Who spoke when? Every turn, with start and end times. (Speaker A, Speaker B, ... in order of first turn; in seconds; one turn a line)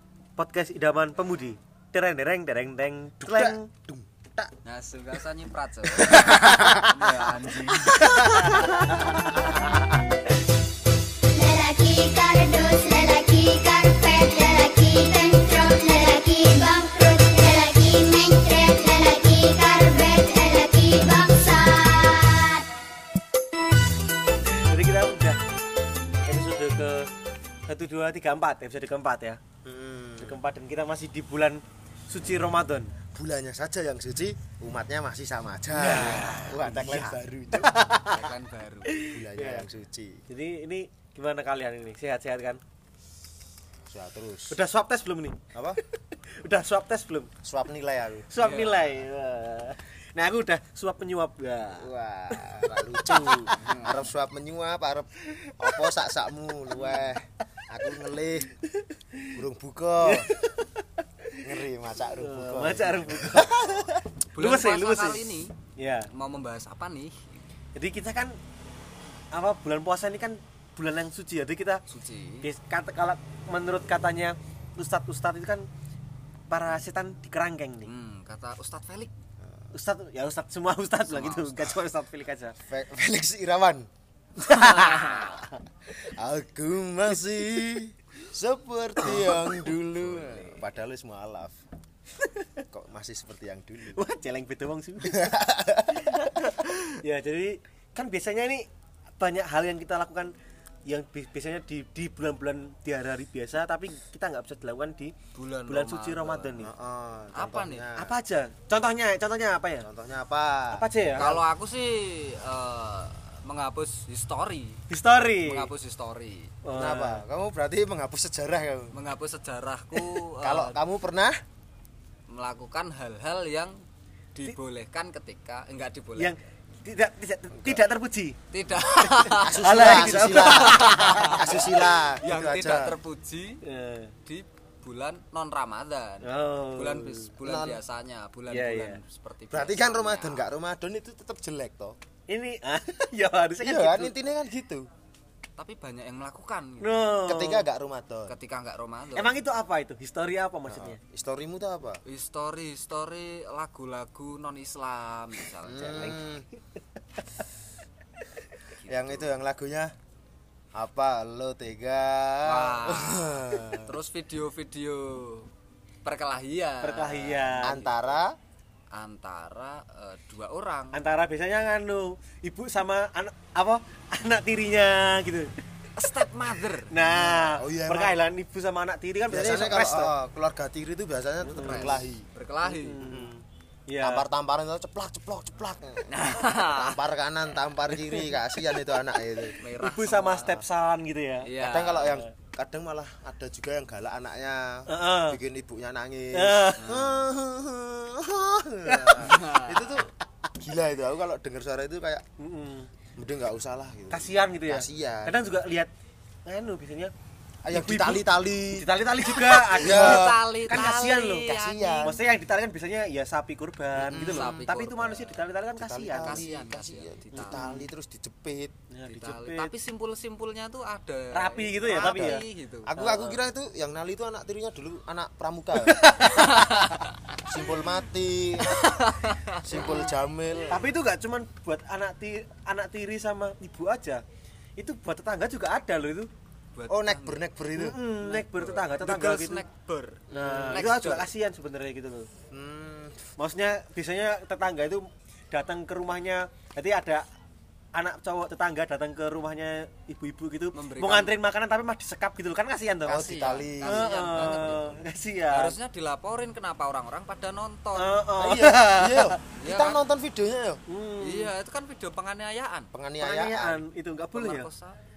Speaker A: 0.4-3.7
Speaker B: 3.2-4.5
Speaker C: 4.6-9.1
Speaker B: 5.9-9.0
Speaker A: 8.0-9.5
Speaker D: 11.3-22.6
Speaker A: 24.5-25.4
Speaker A: 26.2-27.1
Speaker A: 27.7-29.4
Speaker B: 29.6-30.4
Speaker A: 30.2-32.9
Speaker B: 33.1-37.9
Speaker A: 35.7-38.3
Speaker C: 38.0-39.0
Speaker A: 38.9-39.7
Speaker B: 39.1-40.2
Speaker A: 40.3-42.6
Speaker B: 43.9-44.6
Speaker A: 44.5-45.4
Speaker B: 45.5-45.8
Speaker A: 46.3-47.3
Speaker B: 47.4-48.3
Speaker A: 48.3-51.9
Speaker C: 48.4-48.9
Speaker B: 51.7-58.5
Speaker A: 53.1-53.5
Speaker C: 53.5-54.0
Speaker A: 58.6-59.4
Speaker B: 59.3-60.3
Speaker A: 60.0-61.5
Speaker B: 61.4-63.5
Speaker A: 62.2-65.2
Speaker C: 64.3-65.5
Speaker A: 65.8-66.1
Speaker C: 66.1-67.4
Speaker A: 67.7-68.4
Speaker A: 69.3-71.8
Speaker C: 71.9-72.5
Speaker A: 72.4-75.7
Speaker A: 76.5-77.9
Speaker C: 77.8-79.1
Speaker A: 79.7-82.5
Speaker C: 81.1-81.8
Speaker B: 82.7-83.9
Speaker A: 84.4-85.5
Speaker C: 84.4-85.5
Speaker B: 86.0-91.6
Speaker C: 90.0-90.6
Speaker A: 92.2-92.6
Speaker B: 92.7-94.0
Speaker A: 93.9-95.4
Speaker B: 95.0-96.8
Speaker A: 95.9-98.7
Speaker A: 99.2-100.3
Speaker A: 100.9-105.2
Speaker C: 105.3-106.6
Speaker A: 105.7-106.7
Speaker B: 106.6-108.1
Speaker C: 107.3-107.9
Speaker A: 108.0-109.9
Speaker B: 109.8-110.8
Speaker A: 110.7-111.4
Speaker C: 111.2-114.8
Speaker A: 114.9-115.7
Speaker C: 115.4-116.5
Speaker A: 116.6-117.2
Speaker B: 116.7-119.0
Speaker C: 118.9-120.8
Speaker B: 120.4-121.3
Speaker C: 122.3-123.8
Speaker C: 124.3-126.3
Speaker A: 126.2-128.4
Speaker B: 127.5-127.8
Speaker C: 128.5-133.6
Speaker A: 129.0-131.6
Speaker B: 129.4-133.0
Speaker A: 133.6-134.1
Speaker C: 134.2-140.5
Speaker A: 136.2-137.3
Speaker B: 137.4-137.8
Speaker A: 138.5-139.0
Speaker B: 139.5-142.0
Speaker A: 142.3-144.1
Speaker B: 143.6-144.9
Speaker C: 145.6-147.1
Speaker A: 146.8-147.7
Speaker B: 147.3-148.3
Speaker C: 148.3-149.4
Speaker A: 149.2-151.0
Speaker B: 150.7-152.0
Speaker C: 152.0-156.2
Speaker B: 155.6-156.4
Speaker A: 155.9-156.3
Speaker C: 158.7-159.3
Speaker B: 158.9-159.9
Speaker B: 160.7-163.9
Speaker C: 162.4-165.5
Speaker C: 166.0-168.1
Speaker A: 166.8-167.8
Speaker B: 167.6-168.3
Speaker C: 168.9-171.0
Speaker A: 170.9-175.5
Speaker C: 176.0-177.1
Speaker A: 176.9-180.1
Speaker B: 177.3-178.2
Speaker B: 179.3-182.2
Speaker A: 181.4-182.0
Speaker C: 181.6-183.0
Speaker A: 182.6-183.3
Speaker B: 183.0-183.4
Speaker A: 183.9-184.2
Speaker B: 184.0-189.6
Speaker C: 186.1-187.0
Speaker A: 186.2-186.5
Speaker C: 189.6-190.6
Speaker A: 189.8-192.3
Speaker C: 191.4-192.1
Speaker B: 191.6-202.2
Speaker A: 194.9-195.4
Speaker A: 196.3-196.9
Speaker C: 196.8-197.2
Speaker A: 198.8-199.3
Speaker C: 199.1-200.1
Speaker A: 202.4-202.9
Speaker B: 203.2-205.4
Speaker A: 204.1-205.9
Speaker A: 206.4-207.1
Speaker B: 207.6-208.9
Speaker A: 207.7-211.5
Speaker C: 209.5-212.2
Speaker B: 209.5-210.4
Speaker B: 211.4-212.2
Speaker A: 212.0-216.4
Speaker C: 214.1-215.4
Speaker B: 214.1-214.5
Speaker B: 215.8-218.7
Speaker C: 216.2-217.7
Speaker A: 217.4-217.9
Speaker A: 218.9-219.8
Speaker C: 219.1-222.9
Speaker A: 221.3-222.4
Speaker B: 221.9-226.1
Speaker A: 223.0-223.4
Speaker A: 225.8-226.7
Speaker C: 226.3-227.4
Speaker B: 227.4-228.9
Speaker C: 228.7-230.1
Speaker B: 229.6-230.8
Speaker A: 230.7-234.2
Speaker A: 234.8-236.3
Speaker C: 236.7-237.4
Speaker B: 236.9-238.0
Speaker A: 237.7-239.6
Speaker C: 238.2-241.3
Speaker A: 240.3-242.3
Speaker B: 240.3-240.8
Speaker B: 242.5-243.3
Speaker A: 243.4-247.2
Speaker A: 247.9-253.3
Speaker C: 250.7-251.4
Speaker B: 253.1-254.9
Speaker C: 253.1-254.9
Speaker A: 253.8-255.8
Speaker C: 255.5-258.3
Speaker A: 257.9-259.4
Speaker B: 258.4-260.8
Speaker C: 259.5-260.0
Speaker A: 260.9-261.5
Speaker C: 261.2-262.9
Speaker B: 262.9-263.8
Speaker A: 263.2-264.7
Speaker C: 264.3-264.9